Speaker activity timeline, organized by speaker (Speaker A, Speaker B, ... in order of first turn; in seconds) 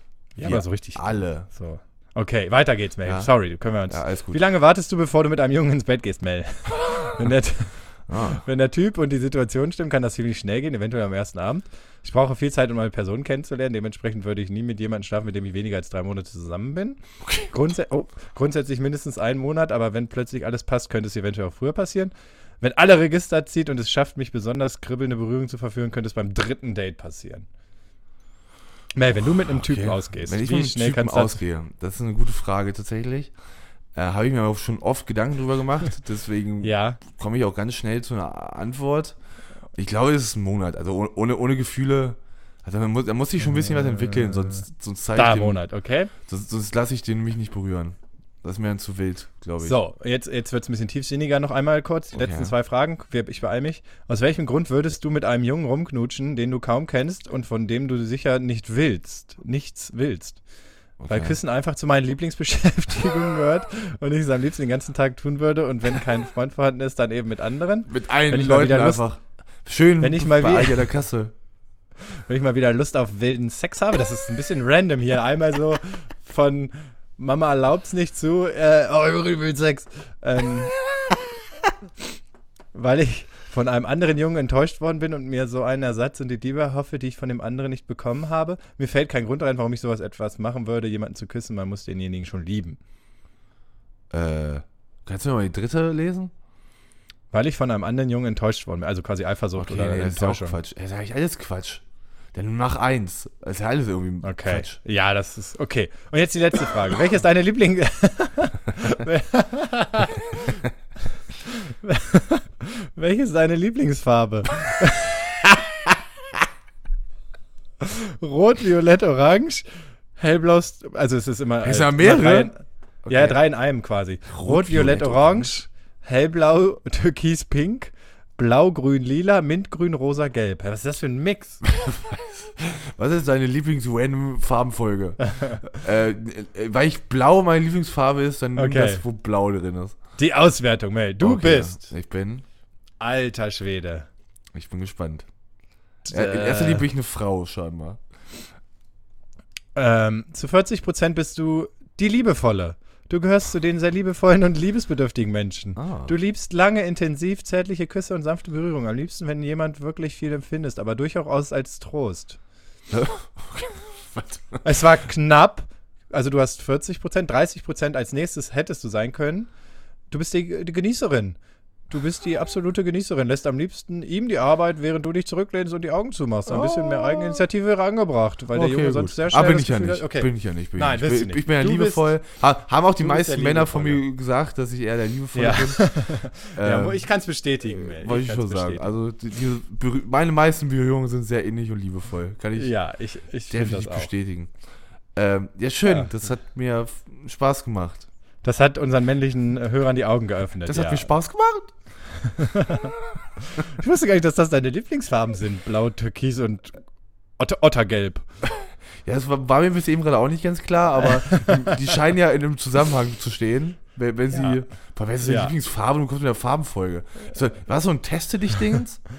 Speaker A: 0.4-27.5, 28.9-31.4, 36.6-37.0, 43.5-44.6, 45.1-46.1, 49.6-60.4, 61.1-69.0, 70.0-70.9, 72.3-80.8, 82.7-92.8, 97.3-100.6, 104.2-110.5, 111.5-115.2, 117.8-131.6, 135.3-135.6, 138.6-139.1, 140.2-141.9, 143.0-144.1, 146.1-146.9, 149.8-162.4, 164.6-169.5, 170.1-171.4, 171.9-182.1, 183.0-184.0, 185.3-188.9, 192.6-194.1, 198.4-201.1, 202.2-206.8, 207.4-208.2, 211.2-211.8, 214.3-214.6, 215.2-215.5
Speaker B: 0.4-1.5, 3.0-3.3, 3.9-4.4, 8.1-8.4, 17.2-17.5, 29.5-33.3, 34.0-39.2, 39.7-45.6, 46.3-49.8, 52.1-52.5, 61.0-61.4, 67.9-71.3, 94.1-96.3, 99.6-101.8, 102.3-104.8, 121.6-122.5, 123.0-123.4, 124.3-125.5, 131.7-140.0, 141.2-142.4, 144.5-145.3, 146.1-148.0, 155.8-156.2, 162.9-164.6, 176.5-177.4, 178.5-187.1, 187.6-192.7, 193.5-194.5, 195.2-198.1, 200.7-201.7, 209.0-219.0